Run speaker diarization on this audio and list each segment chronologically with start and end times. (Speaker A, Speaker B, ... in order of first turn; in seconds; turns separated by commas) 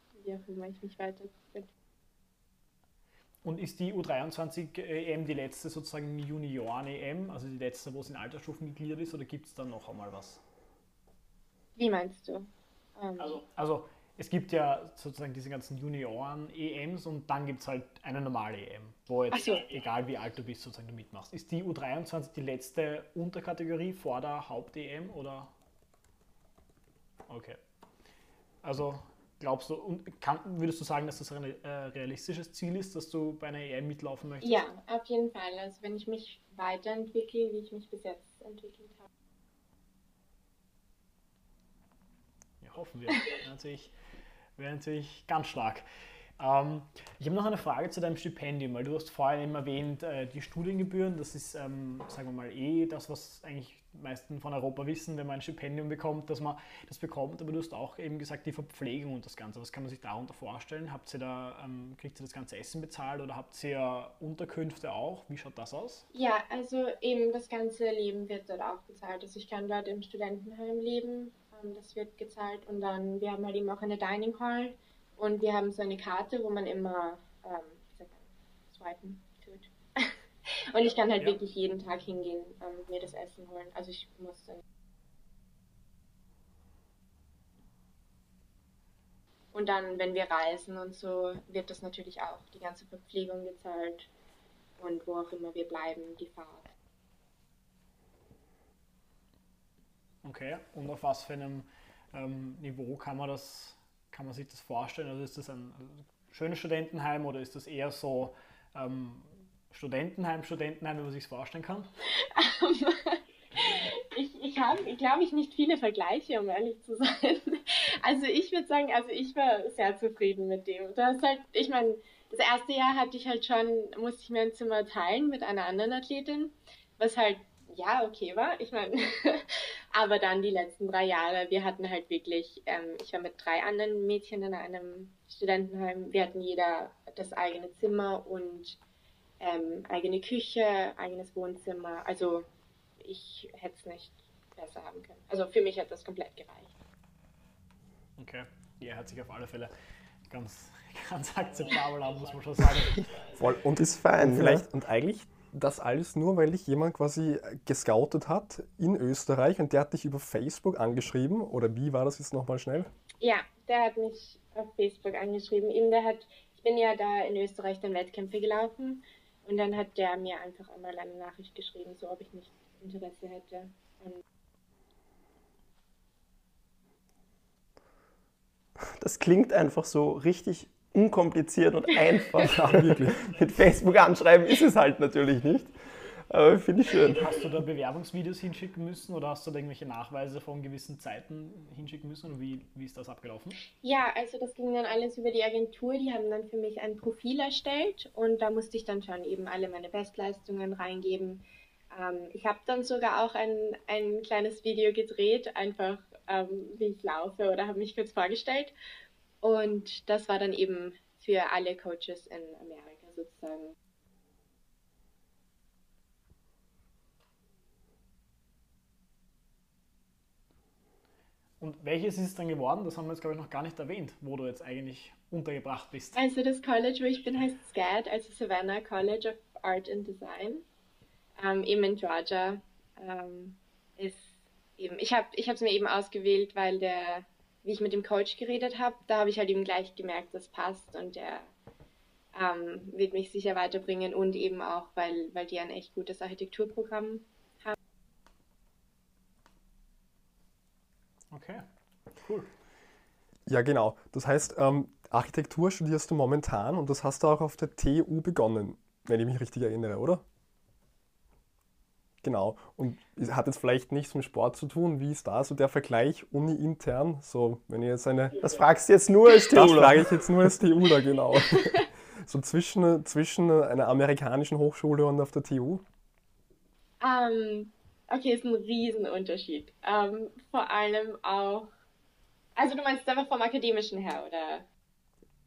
Speaker A: 0.2-1.7, Speaker B: 3.4-10.4, Speaker A: 11.8-13.4, Speaker B: 13.3-25.5, Speaker A: 19.3-19.6, Speaker B: 27.3-27.6, Speaker B: 28.6-34.6, Speaker A: 34.4-39.0, Speaker B: 42.6-43.9, Speaker B: 44.6-45.8, Speaker B: 46.4-66.0, Speaker A: 66.1-80.2, Speaker A: 80.7-84.6, Speaker A: 89.5-94.1, Speaker A: 94.8-96.7, Speaker B: 100.2-111.9, Speaker A: 112.2-138.8, Speaker A: 139.4-142.5, Speaker A: 143.0-146.7, Speaker B: 148.2-149.7, Speaker B: 150.3-153.1, Speaker C: 153.4-162.9, Speaker D: 153.7-154.7, Speaker A: 163.2-174.2, Speaker D: 179.0-185.7, Speaker C: 182.4-183.2, Speaker D: 186.3-187.2, Speaker B: 187.2-193.6, Speaker A: 193.8-208.7, Speaker A: 209.4-213.7, Speaker B: 221.6-226.2, Speaker A: 226.1-230.6, Speaker A: 231.4-241.5, Speaker A: 242.3-247.7, Speaker B: 251.3-251.6, Speaker B: 252.2-252.5, Speaker C: 253.5-260.2, Speaker C: 262.2-268.4, Speaker D: 268.4-270.2, Speaker C: 269.5-275.8, Speaker A: 271.5-271.8, Speaker A: 277.0-281.7, Speaker A: 282.6-284.6